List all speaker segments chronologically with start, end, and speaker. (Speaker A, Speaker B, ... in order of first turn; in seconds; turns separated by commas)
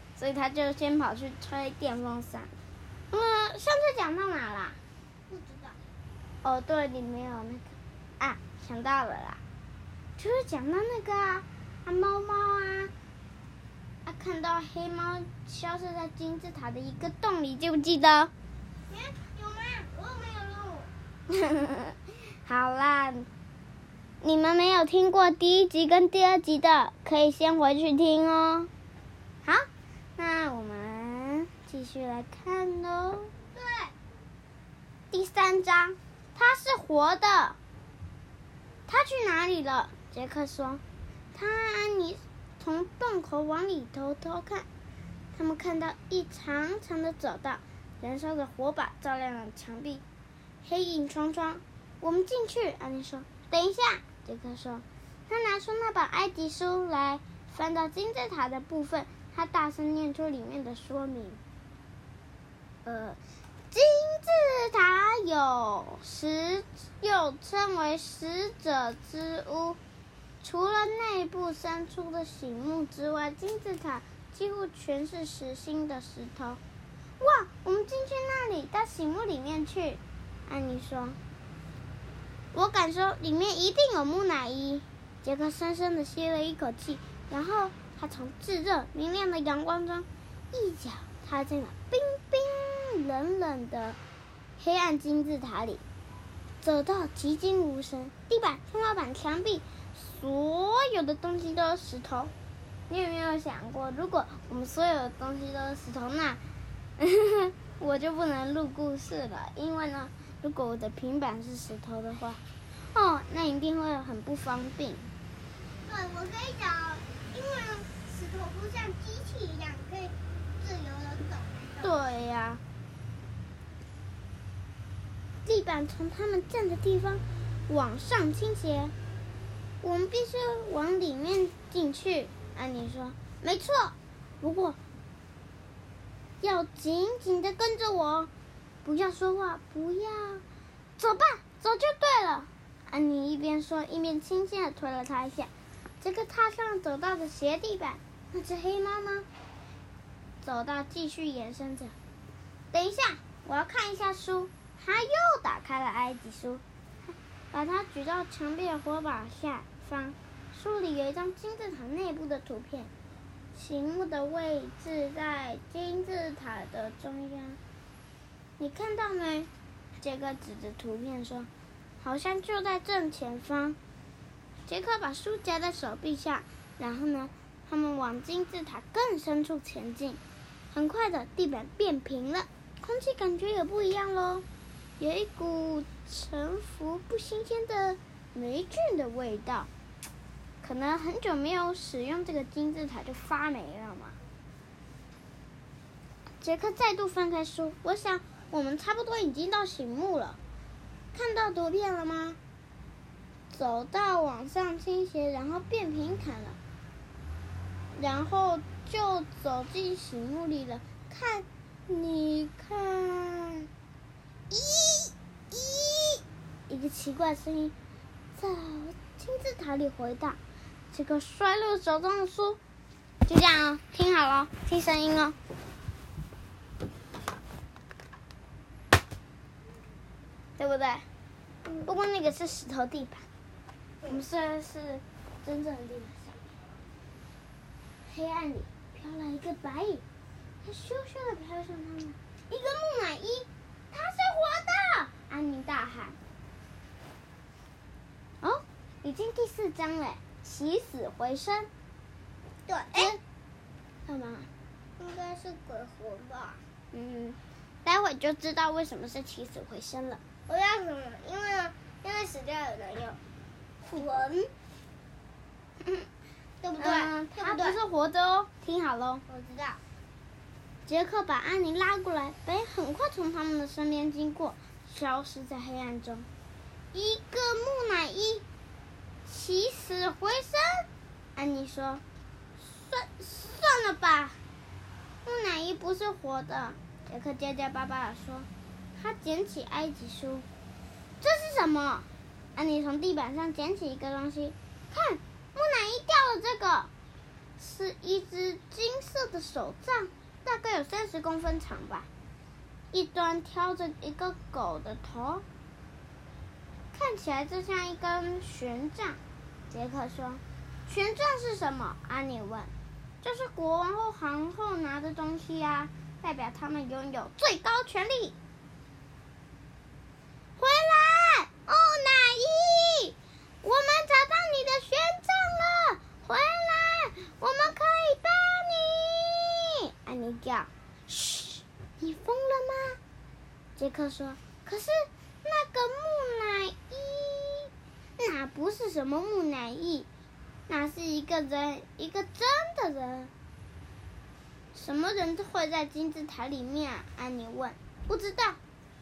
Speaker A: 0.2-2.5, Speaker A: 3.1-4.8, Speaker B: 5.3-5.8, Speaker A: 6.4-9.4, Speaker A: 10.2-12.9, Speaker A: 14.1-18.3, Speaker B: 18.9-20.9, Speaker A: 21.3-23.3, Speaker A: 24.2-28.7, Speaker A: 29.4-33.3, Speaker B: 33.5-33.9, Speaker A: 35.1-37.6, Speaker A: 38.9-40.8, Speaker A: 41.3-44.7, Speaker A: 45.3-50.0, Speaker A: 50.6-61.4, Speaker A: 62.9-63.2, Speaker A: 63.7-69.8, Speaker A: 70.4-76.6, Speaker A: 77.2-81.2, Speaker A: 82.5-94.0, Speaker A: 94.6-95.8, Speaker A: 96.6-102.3, Speaker A: 102.9-106.4, Speaker A: 107.0-112.4, Speaker A: 112.9-115.1, Speaker B: 115.8-121.9, Speaker A: 121.8-122.6, Speaker A: 125.5-128.9, Speaker A: 129.8-134.8, Speaker A: 136.4-138.3, Speaker A: 138.8-140.4, Speaker A: 141.0-149.3, Speaker A: 150.4-151.9, Speaker A: 152.7-162.9, Speaker A: 163.5-167.6, Speaker A: 168.6-173.8, Speaker A: 174.7-180.2, Speaker A: 180.7-184.5, Speaker A: 185.0-189.7, Speaker A: 190.6-194.2, Speaker A: 196.4-200.4, Speaker A: 201.1-202.4, Speaker A: 203.5-206.6, Speaker A: 207.9-213.7, Speaker A: 214.5-217.8, Speaker A: 218.3-220.4, Speaker A: 220.9-222.6, Speaker A: 223.3-225.4, Speaker A: 230.6-231.1, Speaker A: 231.8-233.3, Speaker A: 234.1-236.6, Speaker A: 238.0-240.0, Speaker A: 240.6-246.2, Speaker A: 248.4-251.7, Speaker B: 252.7-253.2, Speaker A: 254.1-254.5, Speaker B: 255.0-256.6, Speaker A: 256.9-260.2, Speaker B: 260.5-263.2, Speaker B: 264.0-264.5, Speaker B: 266.6-267.8, Speaker A: 266.8-269.2, Speaker B: 269.3-269.8, Speaker A: 270.9-276.3, Speaker A: 276.9-278.4, Speaker A: 279.3-282.0, Speaker A: 282.6-284.4, Speaker A: 285.2-290.5, Speaker A: 291.2-296.9, Speaker A: 297.6-302.1, Speaker A: 302.9-305.4, Speaker A: 306.9-309.2, Speaker A: 309.7-318.4, Speaker A: 320.6-333.0, Speaker A: 333.8-340.1, Speaker A: 340.7-343.3, Speaker A: 344.7-348.6